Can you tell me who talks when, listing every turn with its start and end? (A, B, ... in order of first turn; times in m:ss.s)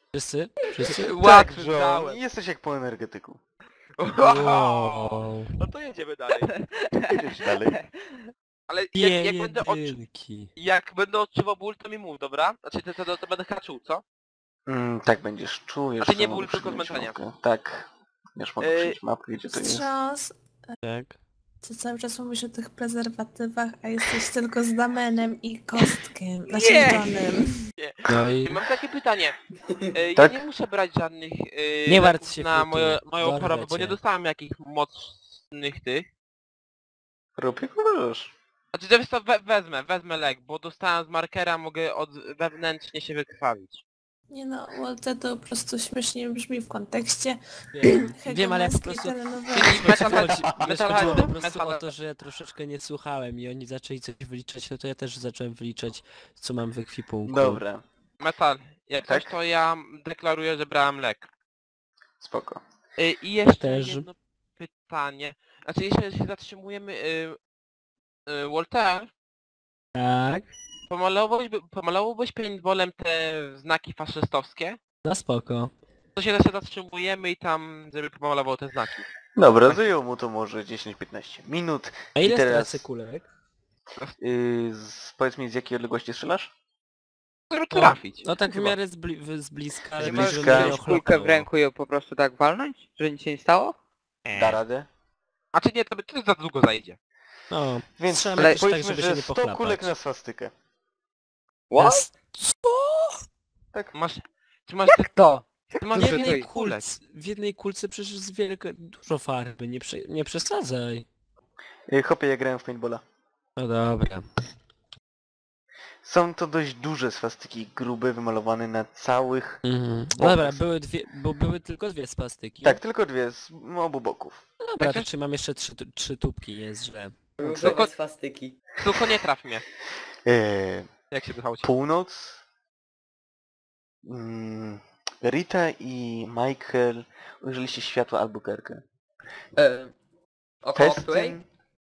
0:00.1-0:01.1 A
0:00.9-0:02.2 B
0:01.0-0:03.4 C
0:04.0-0:06.5 B
0:04.2-0:05.6 A
0:06.5-0:08.2 D
0:07.1-0:07.8 C
0:08.7-0:10.0 B
0:09.0-0:10.5 A
0:10.6-0:14.0 B
0:14.7-0:19.9 C
0:16.0-0:17.2 B
0:18.6-0:19.0 B
0:19.5-0:20.4 E
0:20.8-0:21.2 A
0:21.6-0:27.7 E
0:26.5-0:27.2 D
0:27.7-0:29.4 B
0:28.1-0:28.6 A
0:29.9-0:36.1 B
0:30.2-0:30.4 C
0:31.9-0:34.0 A
0:37.4-0:38.3 C
0:38.7-0:43.8 B
0:44.3-0:50.3 E
0:47.7-0:57.6 A
0:49.5-0:51.9 B
0:57.2-0:57.8 C
0:58.2-1:01.3 B
0:59.0-0:59.3 C
1:02.2-1:02.6 C
1:03.0-1:07.4 B
1:03.4-1:04.1 A
1:08.3-1:09.1 B
1:10.0-1:10.5 A
1:10.9-1:14.8 B
1:15.0-1:15.7 A
1:16.2-1:19.1 B
1:19.4-1:22.9 C
1:22.2-1:23.2 A
1:24.2-1:26.5 C
1:27.5-1:28.8 B
1:27.7-1:31.5 A
1:30.0-1:30.8 C
1:30.0-1:33.8 D
1:34.3-1:34.9 C
1:35.5-1:37.0 B
1:37.5-1:39.9 A
1:38.0-1:40.5 C
1:41.7-1:42.1 D
1:41.8-1:43.2 A
1:43.9-1:45.2 B
1:44.9-1:46.5 D
1:45.8-1:46.8 B
1:46.0-1:51.1 A
1:51.9-1:53.0 C
1:53.6-1:54.3 A
1:56.0-1:59.6 C
1:59.6-2:02.8 A
2:00.2-2:00.6 C
2:02.6-2:04.4 C
2:04.6-2:07.2 A
2:04.8-2:05.1 B
2:07.4-2:08.6 F
2:07.4-2:07.9 B
2:08.8-2:09.6 B
2:10.3-2:10.9 C
2:11.1-2:11.7 B
2:11.6-2:12.4 C
2:14.0-2:18.8 C
2:19.6-2:19.9 F
2:20.6-2:21.4 F
2:20.8-2:21.5 C